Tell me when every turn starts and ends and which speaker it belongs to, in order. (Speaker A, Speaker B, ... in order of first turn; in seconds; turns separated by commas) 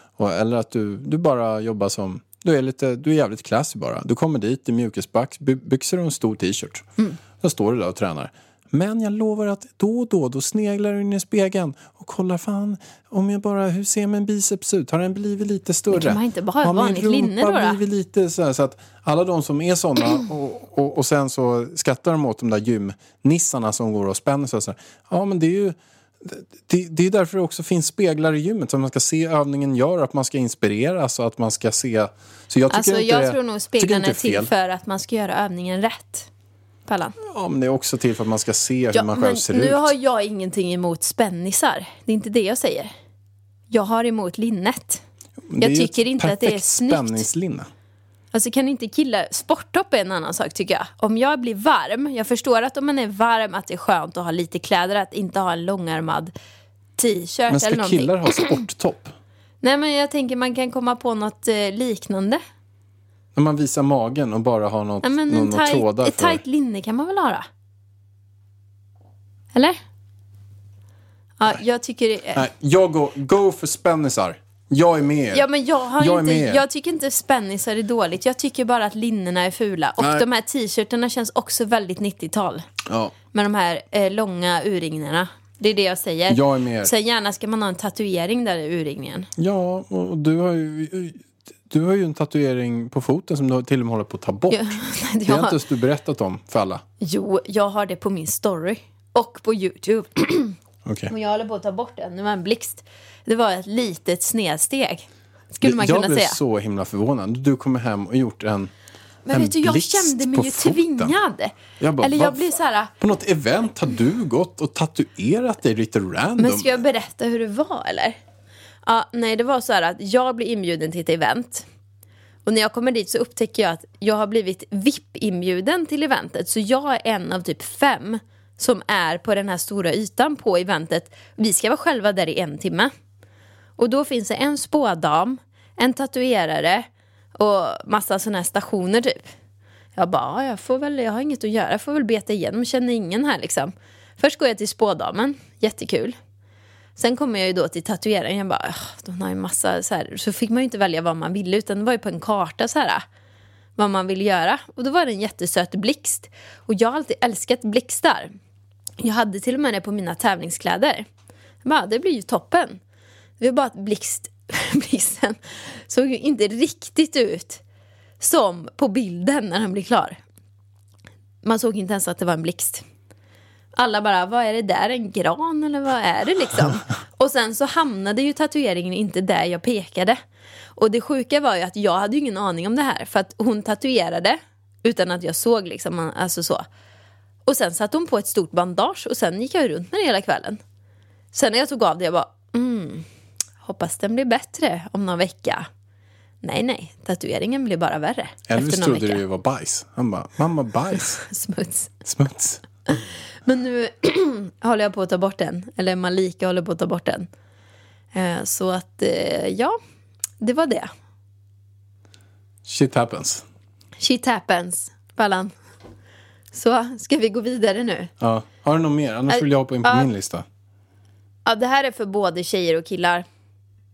Speaker A: 0.2-6.9, Speaker A: 7.4-34.5, Speaker B: 15.9-17.8, Speaker B: 32.7-36.3, Speaker B: 36.9-37.2, Speaker A: 37.2-39.9, Speaker B: 38.9-42.9, Speaker B: 43.7-45.0, Speaker A: 45.5-47.7, Speaker B: 45.6-47.3, Speaker B: 48.3-56.3, Speaker B: 57.0-58.6, Speaker A: 57.5-59.1, Speaker B: 59.6-62.4, Speaker A: 63.4-66.4, Speaker B: 65.0-67.5, Speaker B: 71.4-72.5, Speaker A: 72.3-75.5, Speaker B: 75.3-82.7, Speaker A: 76.0-76.6, Speaker A: 80.0-80.2, Speaker A: 82.9-83.2, Speaker B: 83.3-89.3, Speaker A: 86.3-86.9, Speaker A: 89.4-96.8, Speaker B: 94.5-95.6, Speaker B: 97.0-100.6, Speaker A: 100.8-101.1, Speaker B: 101.1-106.4, Speaker A: 105.6-108.7, Speaker B: 109.3-112.9, Speaker A: 109.3-111.2, Speaker A: 111.8-116.8, Speaker B: 116.4-118.2, Speaker B: 118.8-121.7, Speaker B: 122.5-132.9, Speaker B: 133.8-139.3, Speaker B: 140.0-146.2, Speaker B: 147.0-153.0, Speaker B: 153.8-158.3, Speaker B: 159.0-161.1, Speaker B: 161.6-162.8, Speaker B: 163.4-167.6, Speaker B: 168.2-170.2, Speaker B: 171.4-172.8, Speaker B: 173.8-180.2, Speaker B: 180.8-186.6, Speaker B: 187.5-190.6, Speaker B: 191.3-193.1, Speaker B: 193.6-195.7, Speaker B: 196.4-199.2, Speaker A: 198.5-201.2, Speaker B: 201.2-201.9, Speaker A: 202.1-202.6, Speaker B: 202.9-207.3, Speaker B: 208.1-209.8, Speaker B: 210.4-210.9, Speaker A: 212.7-213.4, Speaker B: 214.0-215.5, Speaker B: 216.5-218.1, Speaker A: 218.2-220.4, Speaker B: 219.3-220.1, Speaker B: 221.5-223.2